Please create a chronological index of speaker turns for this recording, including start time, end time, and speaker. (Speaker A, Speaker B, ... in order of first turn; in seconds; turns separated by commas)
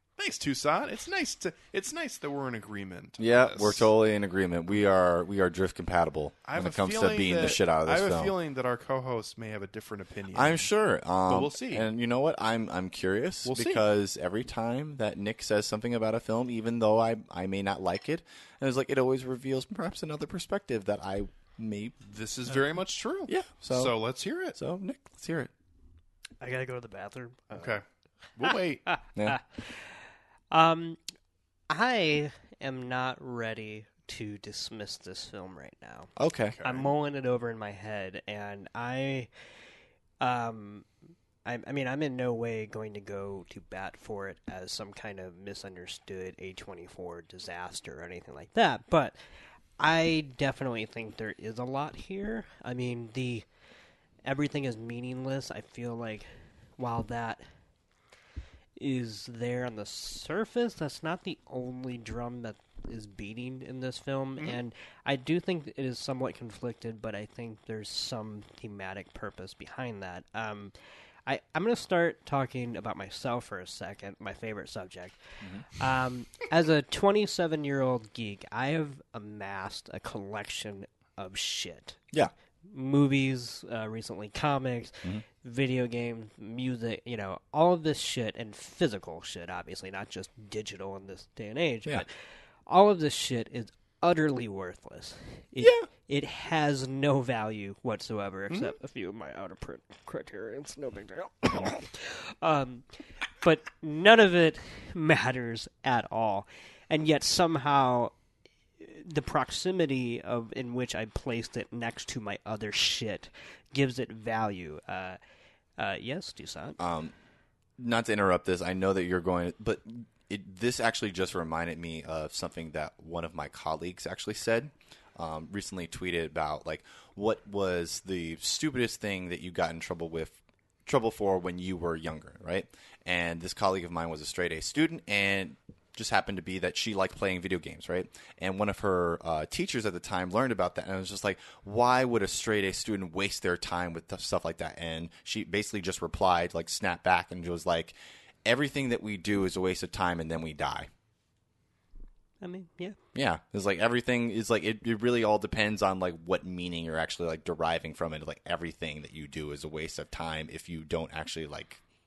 Speaker A: 0.2-3.9, Speaker B: 3.2-8.3, Speaker A: 6.4-10.7, Speaker B: 10.3-21.9, Speaker A: 11.3-11.9, Speaker A: 13.4-13.8, Speaker A: 22.0-24.6, Speaker B: 23.3-23.9, Speaker B: 24.5-25.5, Speaker C: 26.4-27.8, Speaker A: 27.5-27.8, Speaker A: 28.4-28.9, Speaker C: 28.4-31.0, Speaker C: 31.7-39.3, Speaker B: 36.1-36.6, Speaker A: 36.5-36.9, Speaker C: 40.2-40.9, Speaker C: 41.4-49.2, Speaker C: 49.8-53.5, Speaker C: 54.2-57.4, Speaker C: 58.8-70.7, Speaker C: 71.2-82.0, Speaker B: 75.4-75.7, Speaker C: 82.7-92.1, Speaker C: 92.7-102.9, Speaker B: 95.6-95.9, Speaker C: 103.4-108.1, Speaker C: 108.8-115.2, Speaker C: 115.8-116.8, Speaker B: 116.8-117.1, Speaker B: 117.8-150.9, Speaker C: 152.4-153.0, Speaker B: 153.1-161.8